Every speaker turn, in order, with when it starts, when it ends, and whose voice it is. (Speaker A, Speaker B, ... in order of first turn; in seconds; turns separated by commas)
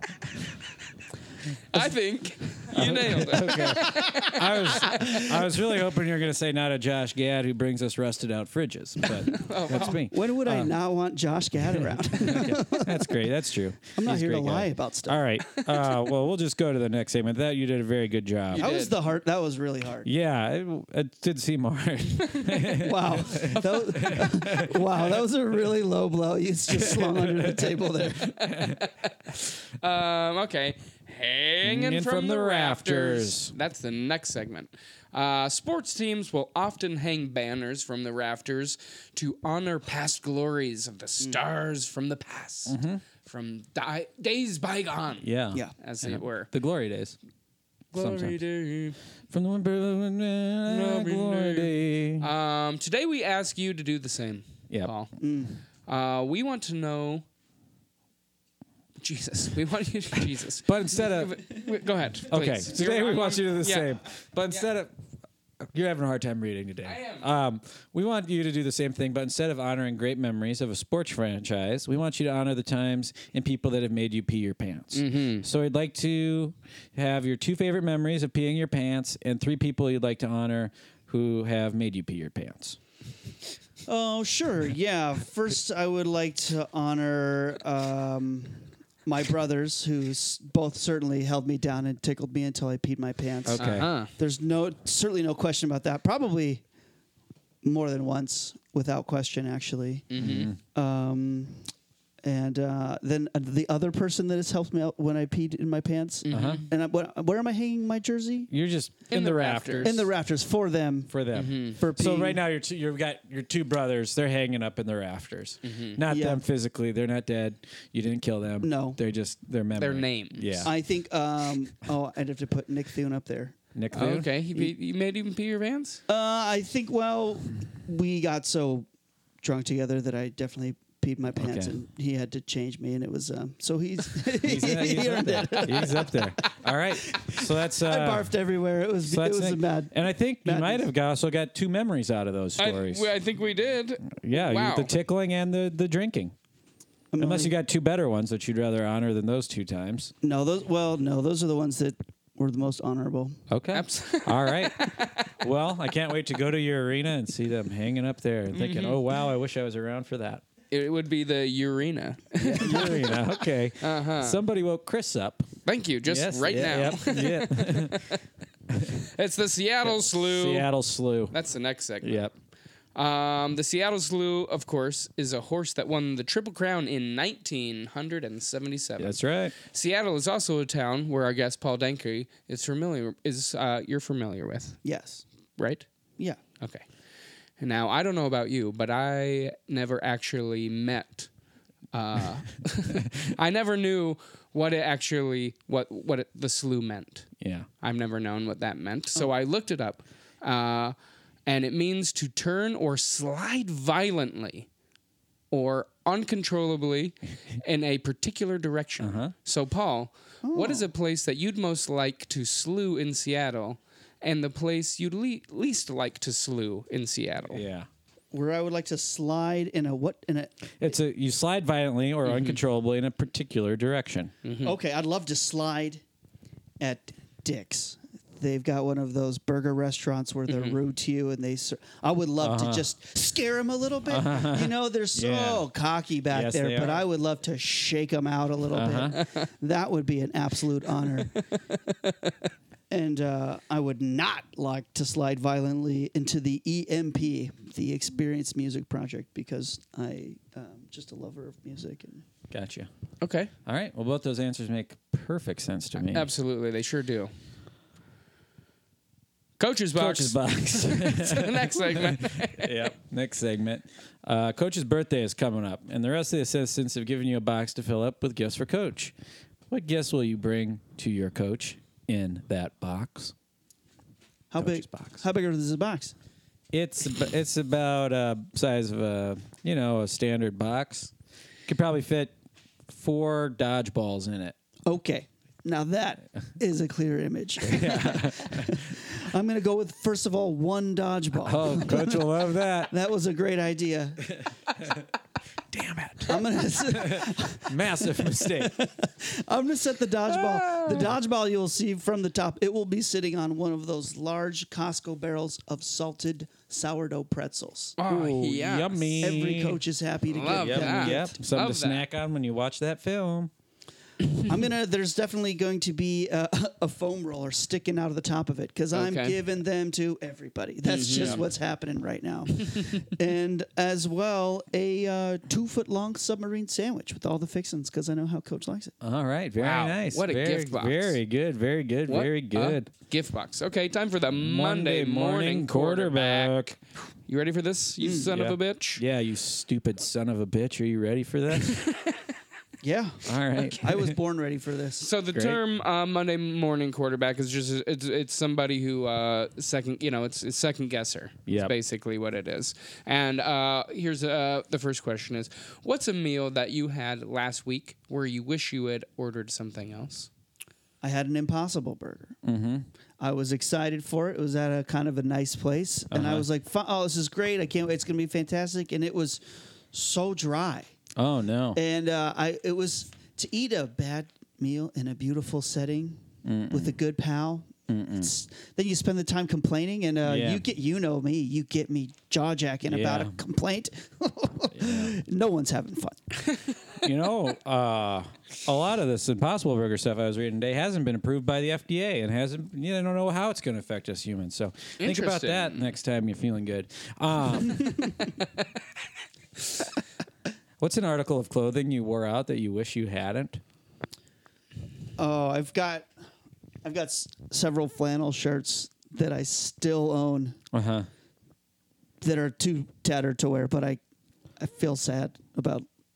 Speaker A: 1.7-5.1, Speaker B: 2.7-10.7, Speaker A: 9.3-10.0, Speaker C: 10.1-13.1, Speaker B: 11.7-18.7, Speaker C: 13.9-15.2, Speaker A: 18.5-18.9, Speaker C: 18.6-20.1, Speaker B: 20.0-24.9, Speaker A: 22.3-22.6, Speaker C: 22.7-28.4, Speaker B: 26.7-28.8, Speaker A: 28.4-45.3, Speaker B: 31.6-33.5, Speaker B: 42.7-43.0, Speaker B: 45.2-47.1, Speaker A: 45.8-46.5, Speaker A: 47.9-49.0, Speaker B: 47.9-48.4, Speaker B: 49.3-52.3, Speaker A: 50.7-55.1, Speaker C: 55.2-55.5, Speaker A: 55.9-57.2, Speaker A: 59.0-64.0, Speaker B: 60.6-61.4, Speaker B: 62.3-64.9, Speaker B: 65.6-82.8, Speaker A: 66.8-67.3, Speaker A: 74.9-75.4, Speaker C: 83.8-96.6, Speaker B: 93.4-93.9, Speaker A: 93.6-94.1, Speaker C: 97.6-100.2, Speaker A: 100.1-100.5, Speaker B: 100.2-100.6, Speaker C: 100.7-101.7, Speaker C: 102.2-108.5, Speaker A: 106.2-106.7, Speaker B: 106.3-106.6, Speaker B: 108.5-110.1, Speaker A: 109.1-109.9, Speaker C: 109.8-112.4, Speaker B: 111.1-120.7, Speaker A: 111.3-111.8, Speaker A: 115.6-116.0, Speaker C: 116.0-116.4, Speaker C: 118.6-119.0, Speaker A: 119.8-120.7, Speaker C: 120.6-123.6, Speaker B: 123.7-124.3, Speaker A: 123.9-126.0, Speaker C: 126.1-128.8, Speaker C: 129.4-140.9, Speaker B: 131.4-131.8, Speaker B: 134.3-138.3, Speaker B: 139.0-143.1, Speaker A: 142.6-144.9, Speaker B: 144.1-146.3, Speaker C: 147.1-147.5, Speaker B: 147.2-150.1, Speaker C: 150.2-153.4, Speaker B: 153.5-160.4, Speaker A: 153.7-155.3, Speaker A: 158.5-159.0, Speaker A: 160.7-163.1, Speaker B: 162.4-165.5, Speaker C: 162.6-163.0, Speaker A: 163.8-164.4, Speaker A: 165.7-168.2, Speaker B: 166.0-168.1, Speaker B: 168.7-169.0, Speaker A: 168.9-170.7, Speaker B: 169.8-171.3, Speaker A: 171.3-172.3, Speaker B: 172.0-172.3, Speaker A: 172.9-184.8, Speaker B: 179.0-179.5, Speaker C: 184.8-185.2, Speaker A: 185.6-185.8, Speaker A: 186.6-186.8, Speaker A: 187.6-191.3, Speaker A: 191.9-197.3, Speaker B: 197.4-197.7, Speaker A: 197.8-204.7, Speaker A: 205.5-217.6, Speaker B: 209.0-209.3, Speaker C: 210.4-210.9, Speaker B: 217.5-217.9, Speaker C: 218.3-220.9, Speaker B: 220.8-224.3, Speaker A: 222.2-222.6, Speaker A: 224.4-224.7, Speaker C: 224.6-226.0, Speaker C: 226.8-241.4, Speaker A: 230.5-230.8, Speaker B: 232.4-232.8, Speaker B: 234.1-235.6, Speaker B: 236.3-237.0, Speaker B: 238.7-239.2, Speaker A: 241.7-242.3, Speaker C: 242.9-252.2, Speaker B: 252.5-252.9, Speaker A: 253.2-253.5, Speaker B: 253.6-256.3, Speaker A: 256.0-257.3, Speaker A: 259.6-262.9, Speaker B: 259.9-269.1, Speaker B: 269.7-273.3, Speaker C: 274.5-276.1, Speaker B: 274.6-275.2, Speaker B: 276.7-281.1, Speaker B: 281.7-282.3, Speaker B: 282.9-284.5, Speaker C: 284.9-294.4, Speaker B: 287.6-288.9, Speaker B: 291.4-292.9, Speaker B: 294.3-295.1, Speaker B: 295.7-298.8, Speaker C: 296.2-308.0, Speaker A: 308.0-309.1, Speaker B: 308.1-309.8, Speaker C: 309.2-311.3, Speaker A: 310.3-312.0, Speaker B: 310.6-313.5, Speaker C: 314.4-328.9, Speaker A: 318.9-319.4, Speaker A: 320.8-321.4, Speaker B: 321.1-321.4, Speaker B: 329.0-332.9, Speaker A: 329.6-331.2, Speaker A: 332.1-336.7, Speaker B: 334.3-336.8, Speaker A: 337.3-339.0, Speaker C: 338.0-338.3, Speaker B: 338.3-341.8, Speaker A: 341.6-342.2, Speaker C: 342.8-345.1, Speaker B: 343.2-344.2, Speaker A: 345.0-360.3, Speaker B: 345.3-345.6, Speaker B: 351.5-351.7, Speaker C: 361.0-362.4, Speaker B: 362.4-362.9, Speaker C: 363.2-369.4, Speaker B: 366.1-366.4, Speaker C: 369.9-370.9, Speaker B: 371.1-371.8, Speaker C: 371.7-386.3, Speaker B: 376.4-377.0, Speaker B: 377.9-378.3, Speaker B: 380.2-380.6, Speaker B: 382.9-383.4, Speaker B: 384.7-385.1, Speaker B: 387.0-398.1, Speaker A: 395.0-395.9, Speaker B: 400.8-403.6, Speaker C: 405.2-406.1, Speaker C: 406.8-410.6, Speaker B: 410.7-411.1, Speaker C: 412.2-414.0, Speaker C: 414.6-415.9